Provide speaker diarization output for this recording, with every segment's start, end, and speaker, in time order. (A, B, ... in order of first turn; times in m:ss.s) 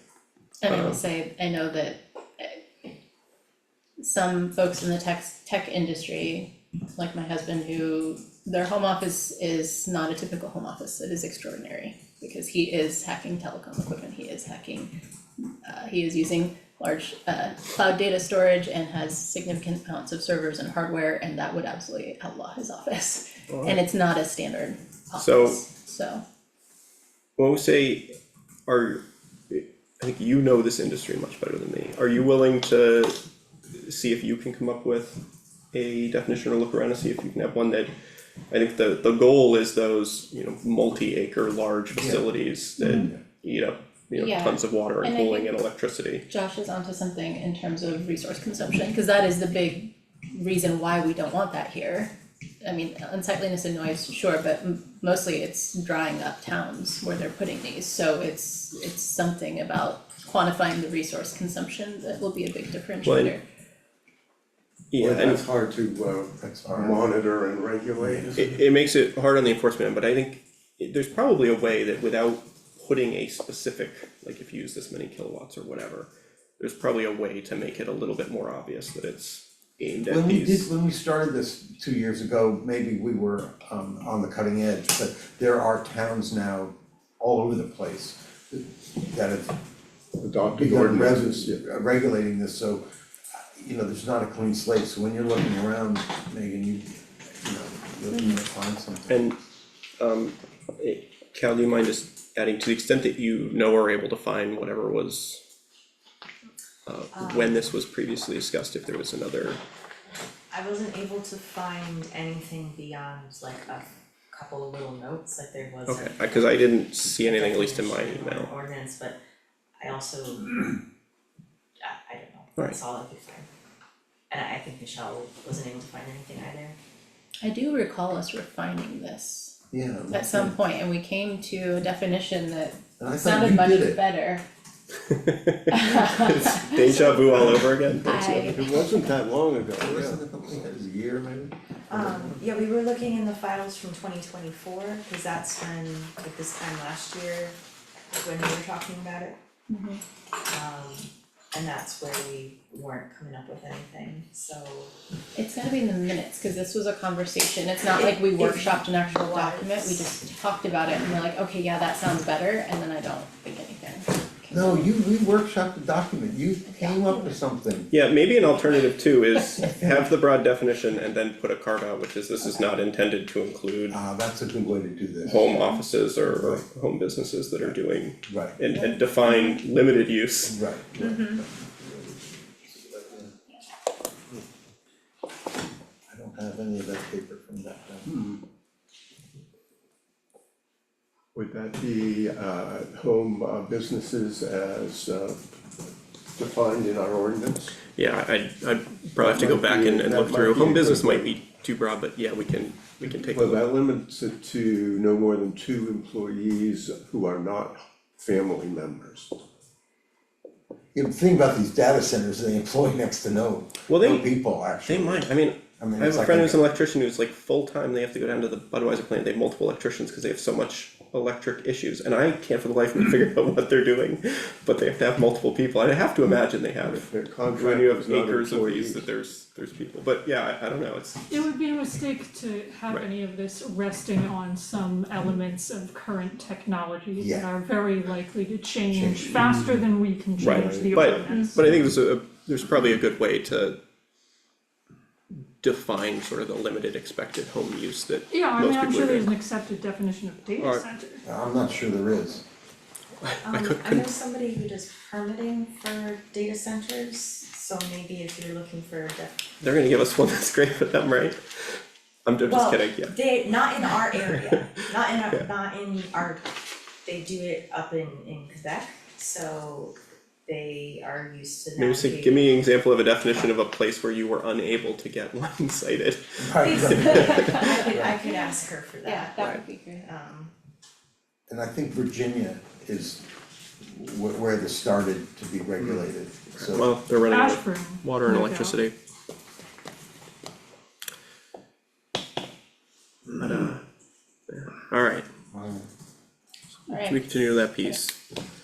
0:00.6-0:02.6 A
0:00.7-0:01.0 B
0:04.0-0:26.2 A
0:23.5-0:23.8 B
0:25.2-0:25.6 B
0:27.4-0:28.1 B
0:28.7-0:33.2 B
0:33.7-0:35.2 B
0:35.7-0:37.9 B
0:38.5-0:46.2 B
0:42.0-0:42.2 C
0:42.8-0:43.2 C
0:42.8-0:43.1 A
0:44.1-0:45.6 A
0:46.3-1:03.4 A
1:03.0-1:03.4 B
1:04.9-1:05.4 B
1:05.0-1:08.6 D
1:06.4-1:07.0 C
1:08.0-1:08.3 C
1:08.4-1:20.7 B
1:20.1-1:29.6 C
1:30.2-1:31.6 D
1:30.6-1:32.8 C
1:33.4-1:39.3 C
1:38.1-1:38.4 A
1:39.1-1:39.4 B
1:40.0-1:45.4 B
1:46.9-1:49.6 B
1:47.1-1:47.7 E
1:50.5-1:59.2 E
1:55.9-1:58.5 B
1:59.8-2:00.8 E
2:01.8-2:03.5 E
2:04.3-2:06.8 E
2:07.4-2:09.6 A
2:09.7-2:10.6 C
2:10.1-2:14.4 A
2:13.0-2:14.0 C
2:15.1-2:18.6 B
2:15.7-2:17.5 A
2:18.1-2:18.7 A
2:18.4-2:20.6 D
2:19.8-2:22.4 C
2:21.9-2:27.6 E
2:28.1-2:29.4 E
2:29.7-2:30.0 A
2:30.5-2:34.9 E
2:35.3-2:44.9 A
2:37.9-2:40.2 E
2:44.5-2:47.9 C
2:46.7-2:47.4 A
2:47.9-2:54.0 B
2:53.9-2:55.6 C
2:55.2-3:00.6 B
2:55.5-2:55.8 A
2:57.6-2:59.0 C
2:59.2-2:59.6 A
3:00.4-3:02.1 C
3:01.0-3:01.4 A
3:02.6-3:03.3 C
3:06.1-3:08.1 C
3:08.1-3:08.4 D
3:11.3-3:15.4 D
3:16.3-3:17.8 D
3:17.9-3:23.6 B
3:19.1-3:21.4 D
3:23.0-3:29.3 D
3:30.9-3:36.6 C
3:33.9-3:51.4 B
3:46.8-3:49.1 D
3:51.3-4:01.9 F
3:57.2-3:57.5 C
3:58.9-3:59.5 C
4:00.4-4:03.8 B
4:01.3-4:01.6 A
4:05.3-4:09.3 B
4:08.3-4:11.2 F
4:11.2-4:12.4 C
4:13.2-4:14.1 B
4:13.4-4:19.4 E
4:19.6-4:23.1 B
4:22.4-4:26.5 E
4:24.2-4:24.7 B
4:27.0-4:32.7 E
4:31.8-4:38.0 B
4:36.4-4:38.1 C
4:36.6-4:40.5 E
4:38.2-4:40.1 A
4:41.5-4:43.2 C
4:43.8-4:46.9 C
4:46.5-4:48.9 B
4:47.3-4:48.8 F
4:53.4-4:53.8 B
4:54.5-4:55.3 B
4:55.5-4:55.9 C
4:56.9-4:58.0 A
4:56.9-4:58.2 B